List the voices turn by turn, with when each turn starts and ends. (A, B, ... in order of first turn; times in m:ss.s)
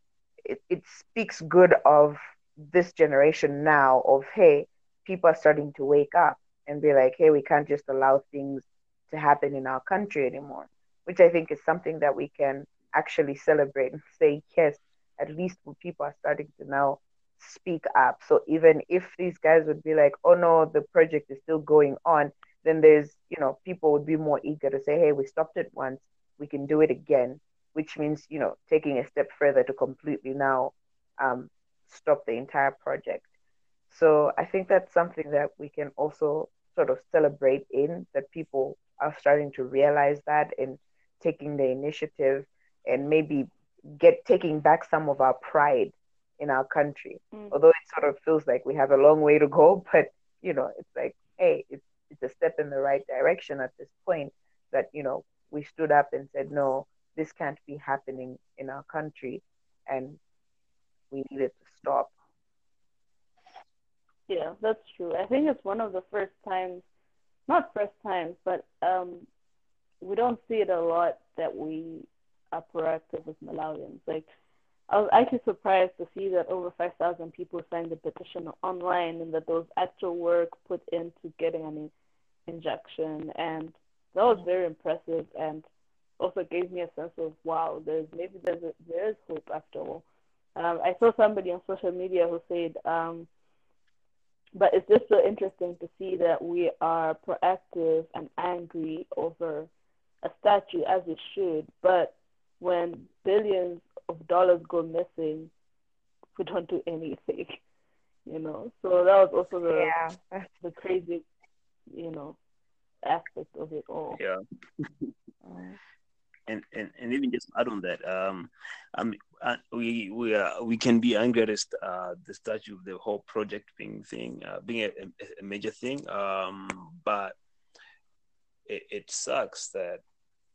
0:00.4-0:33.3 A
0:33.9-1:00.2 A
0:47.3-0:47.6 B
1:01.1-1:02.1 A
1:04.3-1:06.8 B
1:07.5-1:09.3 B
1:10.0-1:14.3 B
1:14.9-1:21.9 B
1:22.5-1:25.6 B
1:26.2-1:30.0 B
1:30.6-1:33.3 B
1:34.6-1:39.7 B
1:40.2-1:45.5 B
1:46.4-1:47.6 B
1:48.3-1:49.9 B
1:49.7-1:50.5 A
1:50.6-1:51.2 B
1:51.9-1:52.4 B
1:53.0-1:54.2 B
1:54.2-1:55.1 C
1:55.4-1:55.8 A
1:56.5-2:07.4 C
2:08.7-2:10.0 C